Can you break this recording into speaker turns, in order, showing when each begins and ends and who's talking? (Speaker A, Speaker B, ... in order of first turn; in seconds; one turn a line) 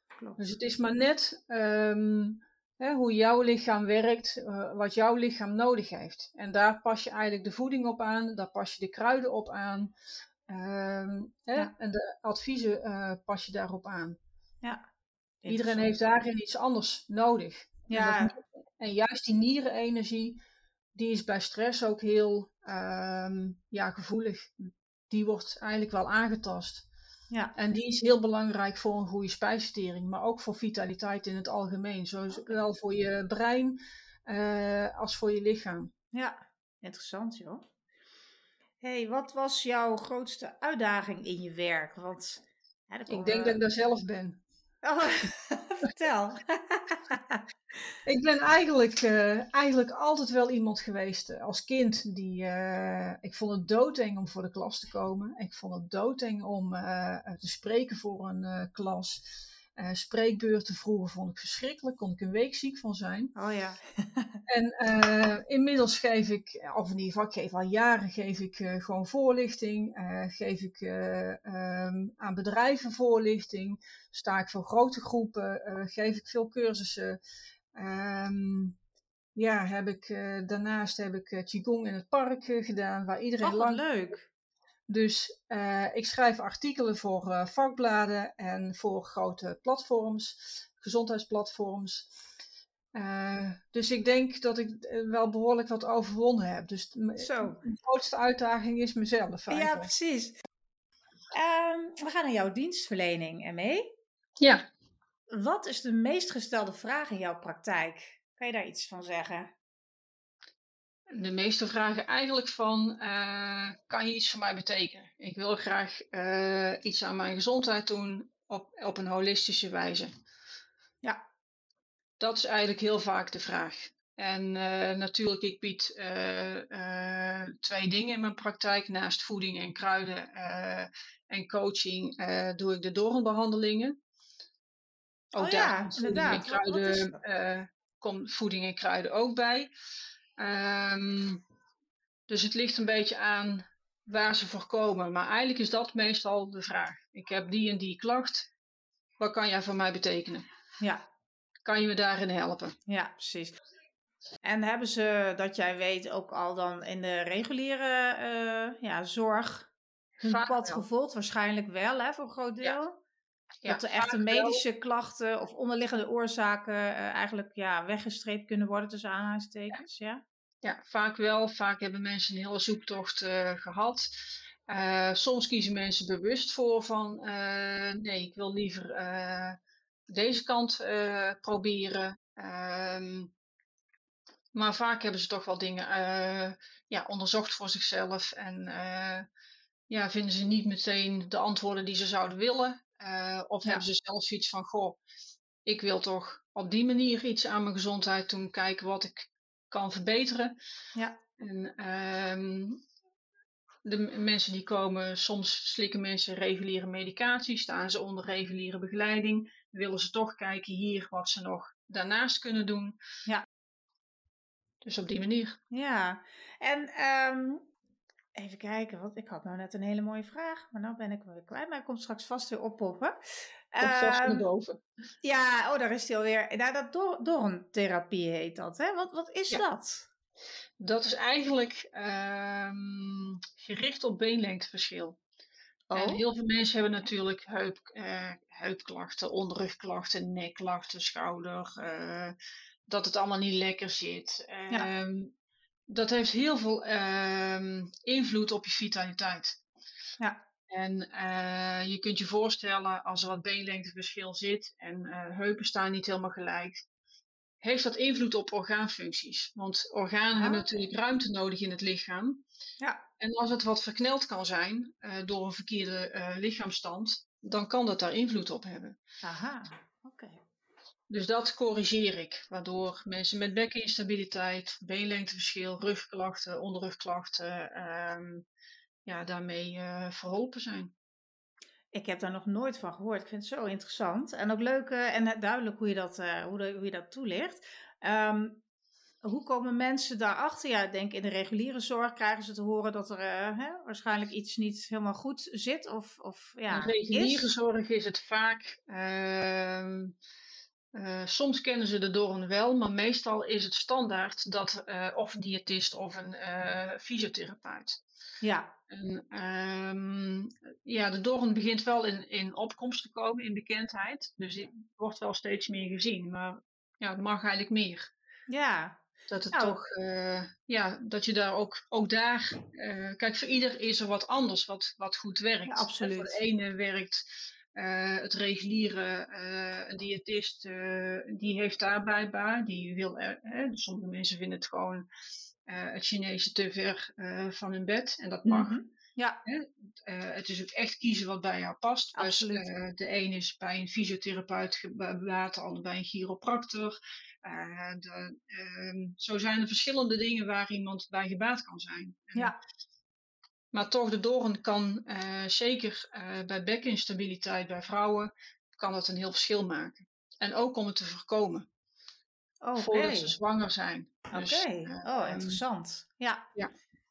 Speaker A: 0.4-9.9
Speaker A: 10.5-14.2
Speaker B: 15.4-15.9
Speaker A: 15.5-20.4
Speaker B: 17.9-18.4
Speaker A: 20.9-26.9
Speaker A: 27.6-35.9
Speaker B: 36.1-37.6
Speaker B: 38.8-43.6
Speaker A: 43.1-44.4
Speaker B: 44.8-47.4
Speaker A: 48.0-63.3
Speaker B: 63.4-64.4
Speaker A: 64.5-77.2
Speaker A: 77.8-78.8
Speaker A: 79.3-83.8
Speaker B: 83.4-84.3
Speaker A: 84.9-92.1
Speaker A: 92.9-99.9
Speaker B: 97.2-97.6
Speaker B: 99.5-100.3
Speaker B: 101.3-103.9
Speaker A: 104.4-104.7
Speaker B: 105.3-109.5
Speaker A: 111.1-120.1
Speaker A: 122.2-134.0
Speaker A: 135.3-139.7
Speaker B: 135.4-137.2
Speaker A: 140.4-141.4
Speaker A: 142.3-148.5
Speaker A: 149.2-150.5
Speaker A: 151.7-152.8
Speaker B: 152.9-153.6
Speaker B: 154.4-162.9
Speaker A: 160.2-160.8
Speaker A: 163.6-164.6
Speaker B: 163.7-170.2
Speaker A: 170.6-183.3
Speaker A: 184.5-189.3
Speaker A: 189.9-195.0
Speaker A: 195.7-200.5
Speaker A: 201.4-202.8
Speaker A: 203.8-213.0
Speaker A: 214.8-215.6
Speaker B: 215.7-217.7
Speaker B: 218.3-224.5
Speaker A: 223.8-224.8
Speaker B: 225.2-230.1
Speaker A: 230.8-235.2
Speaker B: 235.9-236.2
Speaker A: 235.9-242.4
Speaker A: 242.9-245.3
Speaker A: 245.9-249.6
Speaker A: 250.7-256.8
Speaker A: 257.6-262.4
Speaker B: 260.4-260.7
Speaker A: 263.2-269.0
Speaker B: 269.2-270.4
Speaker A: 271.1-278.5
Speaker A: 279.1-280.9
Speaker B: 281.9-288.6
Speaker B: 289.2-297.5
Speaker A: 296.7-300.1
Speaker A: 300.9-308.0
Speaker B: 308.4-308.7
Speaker A: 308.9-318.1
Speaker B: 318.5-319.8
Speaker A: 319.3-335.1
Speaker B: 325.7-326.4
Speaker A: 335.7-338.8
Speaker B: 338.5-339.4
Speaker A: 339.5-352.5
Speaker B: 342.2-342.7
Speaker A: 353.7-361.7
Speaker B: 362.6-363.4
Speaker A: 362.8-365.6
Speaker B: 364.3-366.4